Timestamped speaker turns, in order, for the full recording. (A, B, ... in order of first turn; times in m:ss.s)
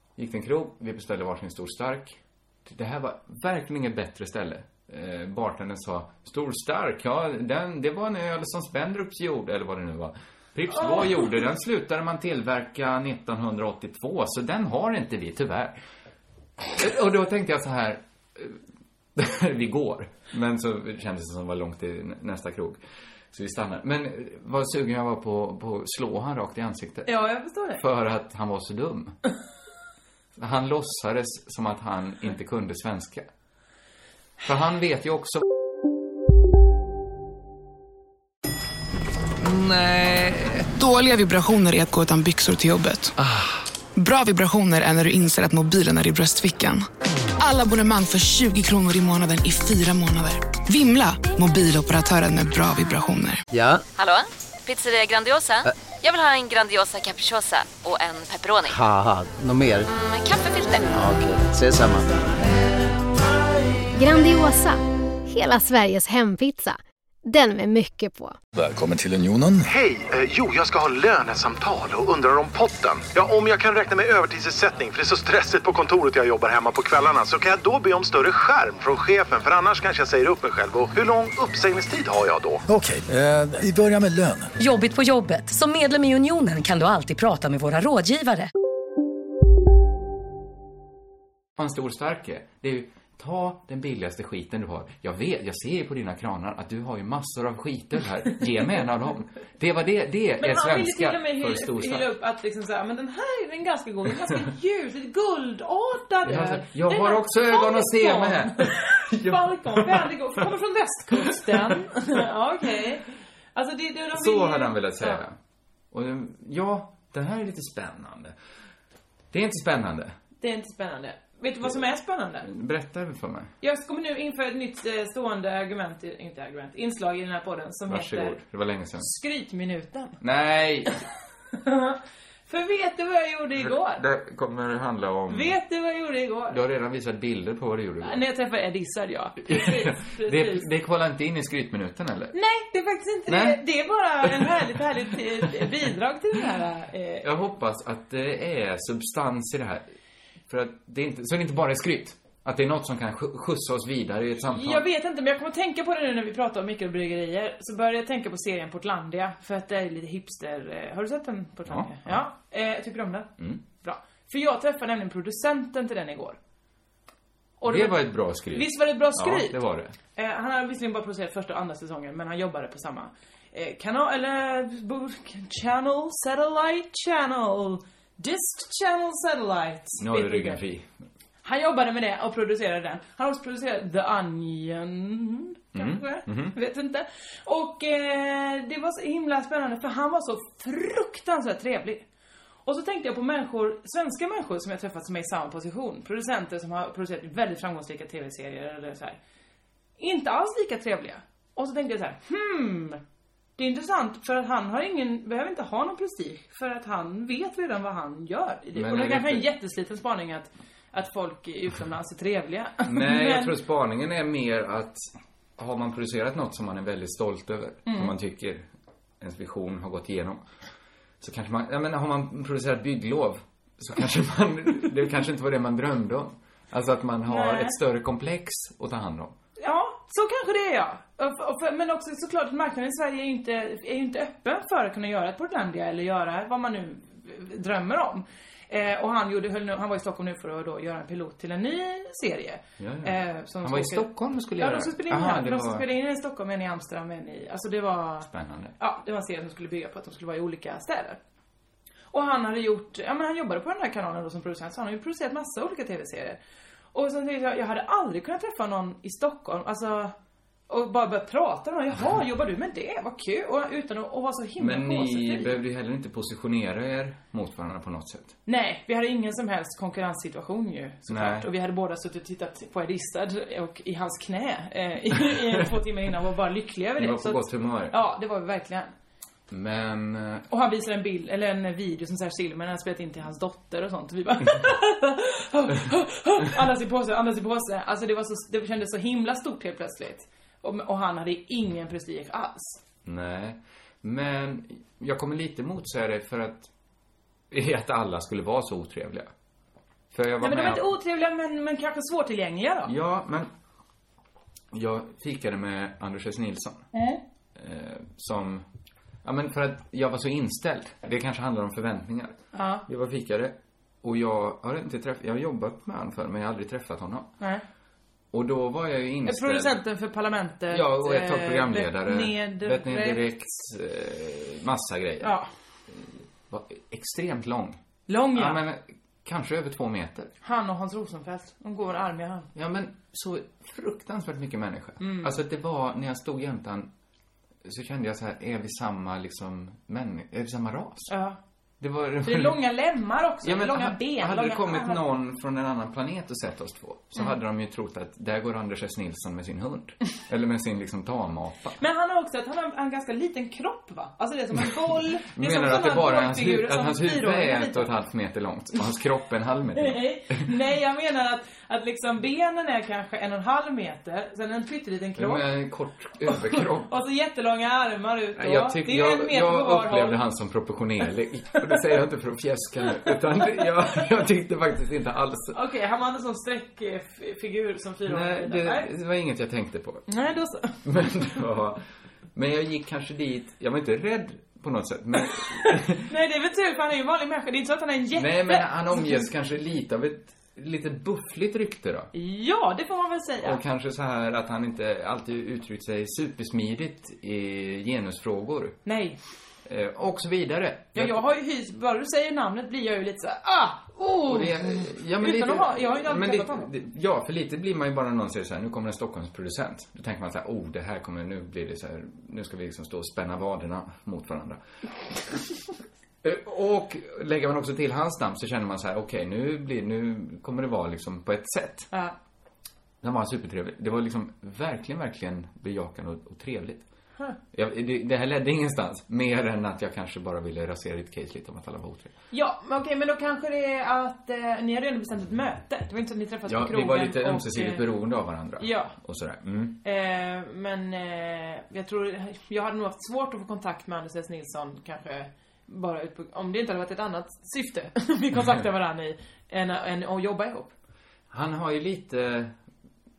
0:00.2-0:15.8 A
0:16.7-0:18.6 A
0:19.2-0:22.8 A
0:23.3-0:27.1 A
0:27.1-0:27.8 B
0:27.8-0:29.2 A
0:30.4-0:33.3 A
0:34.4-0:35.5 A
0:39.4-0:40.7 A
0:40.8-0:43.1 C
0:43.2-0:43.4 A
0:44.0-0:46.9 C
0:47.4-0:53.4 C
0:53.5-0:53.8 D
0:54.0-0:58.8 E
0:58.7-0:59.9 D
0:59.9-1:00.9 E
1:00.9-1:02.1 D
1:04.0-1:08.4 F
1:08.5-1:09.7 G
1:09.7-1:22.6 H
1:22.7-1:24.5 G
1:24.6-1:28.5 I
1:31.6-1:42.1 A
1:40.4-1:55.2 B
1:46.2-1:50.2 A
1:51.1-1:51.8 A
1:54.1-1:55.4 A
1:55.9-1:58.4 A
1:59.3-2:00.2 A
2:00.4-2:02.5 B
2:02.4-2:03.5 A
2:03.6-2:08.4 B
2:07.9-2:09.1 A
2:09.0-2:10.2 B
2:10.2-2:11.0 A
2:11.5-2:14.0 B
2:13.6-2:15.6 A
2:15.3-2:16.6 B
2:16.5-2:18.2 A
2:18.0-2:20.7 B
2:19.4-2:22.4 A
2:22.3-2:27.3 B
2:23.3-2:23.6 A
2:24.2-2:24.8 A
2:27.2-2:29.9 A
2:30.5-2:34.8 A
2:34.5-2:46.4 B
2:41.7-2:42.2 A
2:47.6-2:49.6 B
2:47.6-2:50.0 A
2:50.2-3:00.6 B
3:00.0-3:00.9 A
3:01.4-3:12.0 B
3:05.8-3:06.6 A
3:12.6-3:19.2 B
3:20.0-3:23.0 B
3:23.6-3:33.5 B
3:28.8-3:29.4 A
3:32.9-3:38.7 A
3:37.8-3:38.1 B
3:39.2-3:40.4 A
3:41.2-3:49.4 A
3:47.3-3:47.8 B
3:49.6-4:11.2 B
4:02.8-4:05.9 A
4:08.3-4:08.7 A
4:12.1-4:16.4 B
4:16.9-4:20.1 B
4:20.7-4:25.6 B
4:24.6-4:28.4 A
4:28.5-4:38.9 B
4:31.1-4:31.5 A
4:37.0-4:38.0 A
4:39.5-4:40.5 A
4:40.5-4:52.8 B
4:53.0-4:56.7 A
4:57.5-4:59.3 A
5:00.1-5:00.9 A
5:00.4-5:02.9 B
5:02.9-5:03.5 A
5:04.7-5:06.9 A
5:06.9-5:07.2 B
5:07.6-5:08.6 A
5:09.2-5:12.4 A
5:12.5-5:12.8 B
5:12.9-5:17.3 A
5:18.3-5:19.8 A
5:19.2-5:23.2 B
5:20.7-5:25.3 A
5:25.2-5:25.5 B
5:25.9-5:27.8 A
5:28.1-5:28.6 B
5:28.3-5:30.3 A
5:30.4-5:32.5 B
5:32.6-5:36.9 A
5:35.0-5:35.3 B
5:37.6-5:41.1 A
5:41.1-5:41.4 B
5:41.8-5:42.6 A
5:42.2-5:45.0 B
5:43.4-5:51.8 A
5:51.8-5:57.9 B
5:55.3-6:00.5 A
5:59.8-6:05.5 B
6:05.2-6:06.9 A
6:06.3-6:10.2 B
6:08.4-6:15.6 A
6:15.5-6:18.9 B
6:18.1-6:20.1 A
6:20.1-6:20.8 B
6:20.8-6:21.8 A
6:22.4-6:26.1 A
6:25.4-6:29.3 B
6:28.2-6:32.1 A
6:32.1-6:33.6 B
6:33.4-6:38.8 A
6:38.8-6:39.2 B
6:39.7-6:41.2 A
6:41.0-6:46.7 B
6:44.3-6:54.6 A
6:56.2-7:01.9 A
7:03.0-7:06.9 A
7:07.5-7:12.1 A
7:12.3-7:17.8 B
7:16.5-7:19.8 A
7:18.6-7:18.9 B
7:19.8-7:30.7 B
7:31.3-7:32.5 A